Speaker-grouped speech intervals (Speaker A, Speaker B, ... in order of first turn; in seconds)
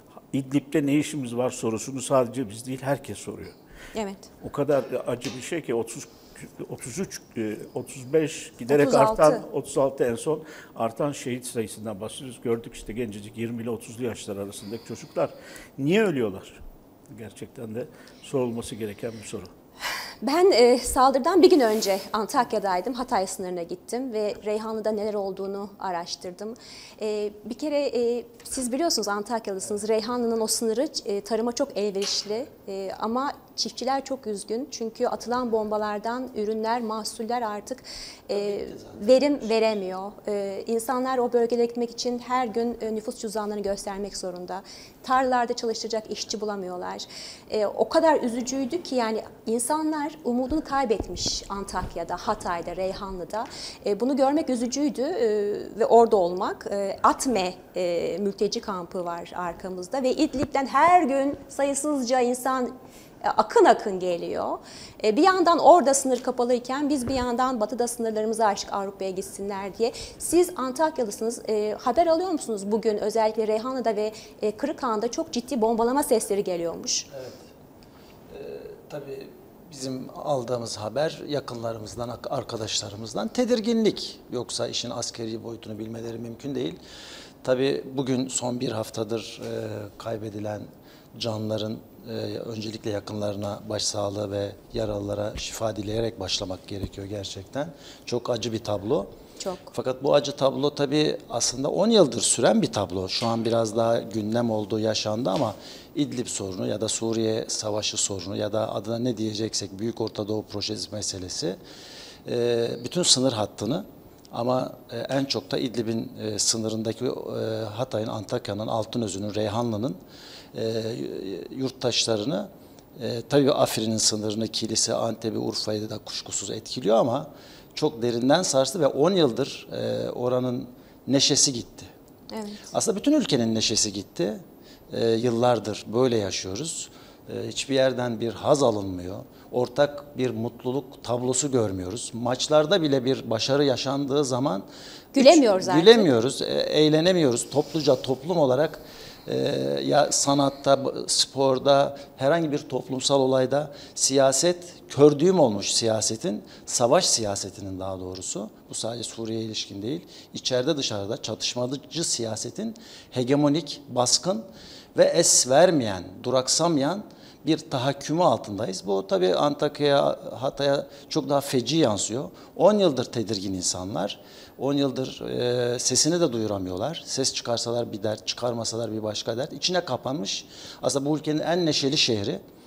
Speaker A: 0.3-3.5, 4.4-16.6, 17.1-19.5
Speaker B: 3.9-4.3, 8.7-9.4, 20.2-77.1, 99.4-99.7, 132.3-132.7, 145.1-146.1
Speaker C: 38.4-39.5, 77.1-77.5, 78.3-86.8, 87.4-99.1, 99.7-111.6, 112.2-120.0, 120.5-131.9, 132.7-182.4